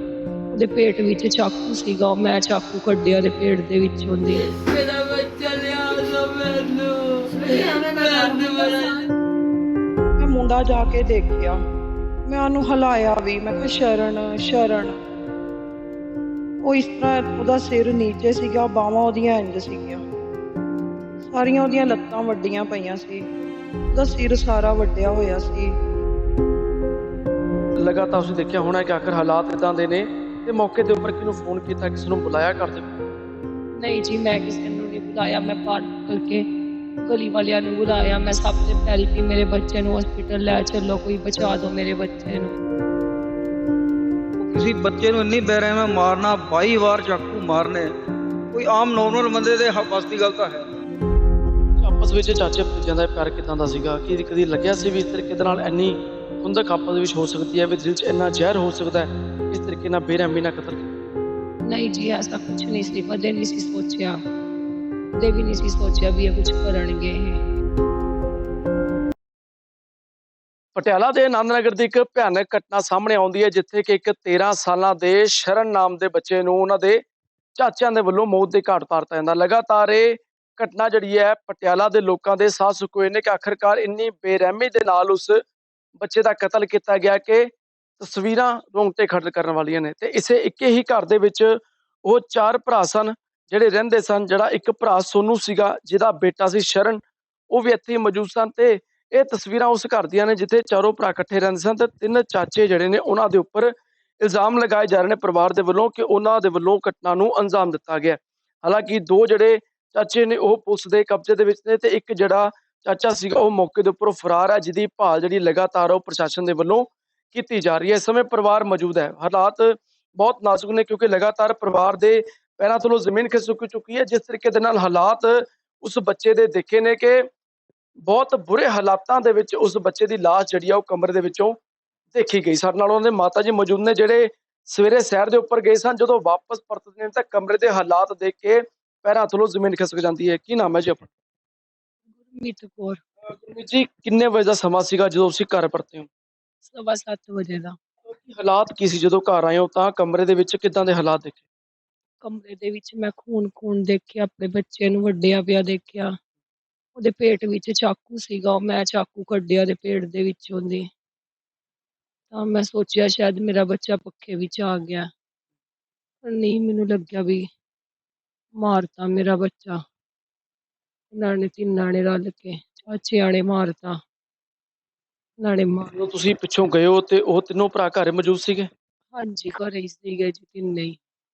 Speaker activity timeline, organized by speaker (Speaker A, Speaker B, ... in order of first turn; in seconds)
Speaker A: 0.5-4.4, 33.8-36.5, 37.0-42.6, 61.7-64.2, 65.2-67.4, 142.2-143.0, 146.6-147.8, 152.2-156.2, 157.0-160.9, 162.3-165.1, 166.2-167.5, 168.6-169.8, 171.1-174.0, 175.4-175.9, 179.1-181.0
Speaker B: 4.6-9.0
Speaker C: 10.2-11.6, 12.3-15.0, 16.6-20.0, 21.2-23.3, 23.9-25.7
Speaker D: 27.8-32.9, 51.8-60.9, 70.8-77.0, 77.6-85.4, 86.0-127.3, 128.1-131.6, 132.1-141.1, 143.2-146.1, 148.1-151.4, 175.9-178.7
Speaker E: 44.4-47.8, 48.6-50.5